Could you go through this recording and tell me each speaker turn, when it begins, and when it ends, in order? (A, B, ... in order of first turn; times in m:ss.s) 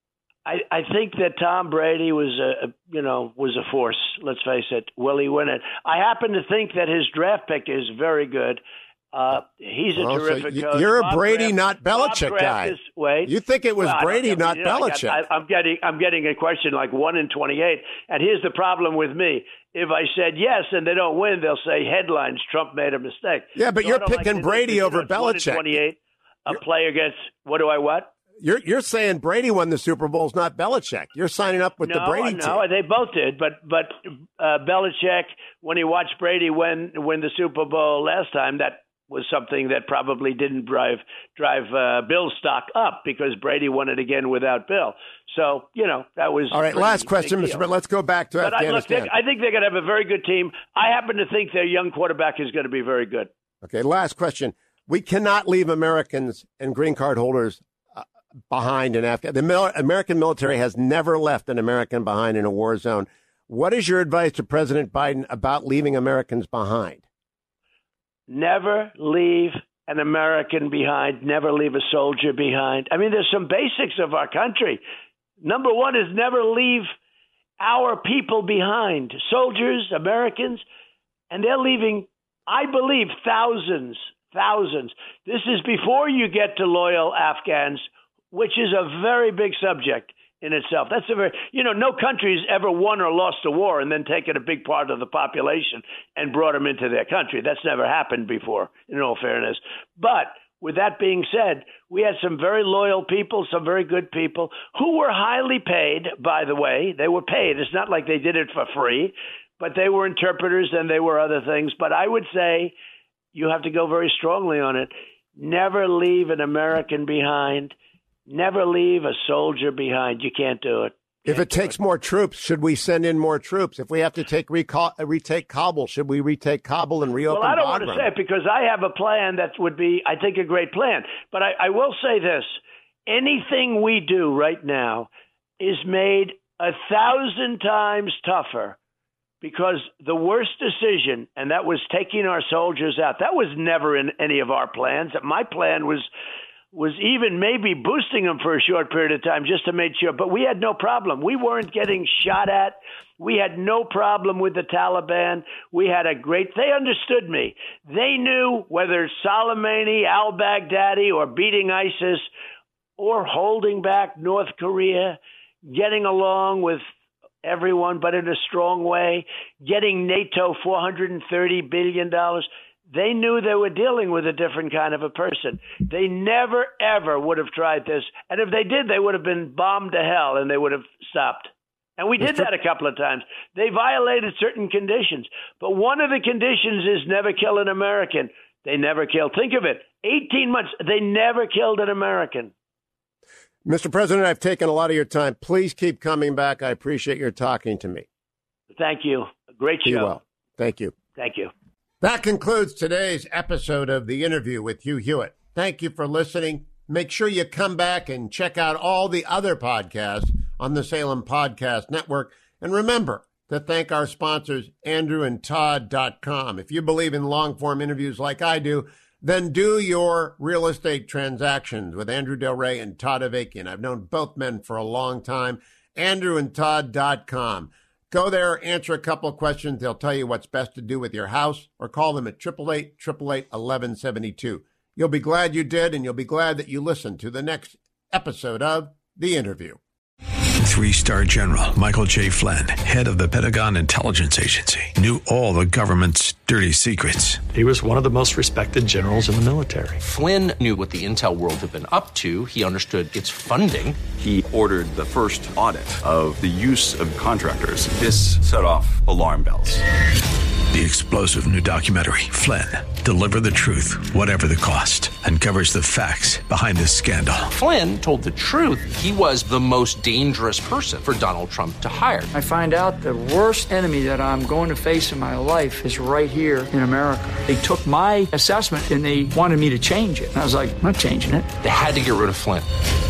0:00.5-0:08.6 A
0:09.1-0:28.1 A
0:10.0-0:15.2 B
0:23.6-0:25.8 B
0:28.4-0:32.6 B
0:31.9-0:47.6 A
0:46.5-0:49.1 B
0:48.4-0:53.3 A
0:53.6-1:07.0 B
1:08.3-1:14.8 A
1:15.4-1:16.9 A
1:17.6-1:20.6 A
1:21.3-1:52.7 A
1:53.3-1:57.7 A
1:58.3-2:01.7 A
2:01.3-2:08.1 B
2:07.3-2:18.8 A
2:19.4-2:26.1 A
2:26.7-2:42.3 A
2:43.0-2:46.8 A
2:47.4-3:12.5 A
3:02.2-3:02.5 B
3:13.6-3:18.1 B
3:18.8-3:20.2 A
3:19.8-3:21.0 B
3:21.2-3:21.5 A
3:22.0-3:59.8 B
4:00.6-4:07.4 C
4:07.5-4:10.0 D
4:10.0-4:14.0 E
4:14.2-4:19.8 F
4:20.7-4:27.5 C
4:27.5-4:32.3 E
4:32.3-4:41.5 G
4:41.6-4:42.7 E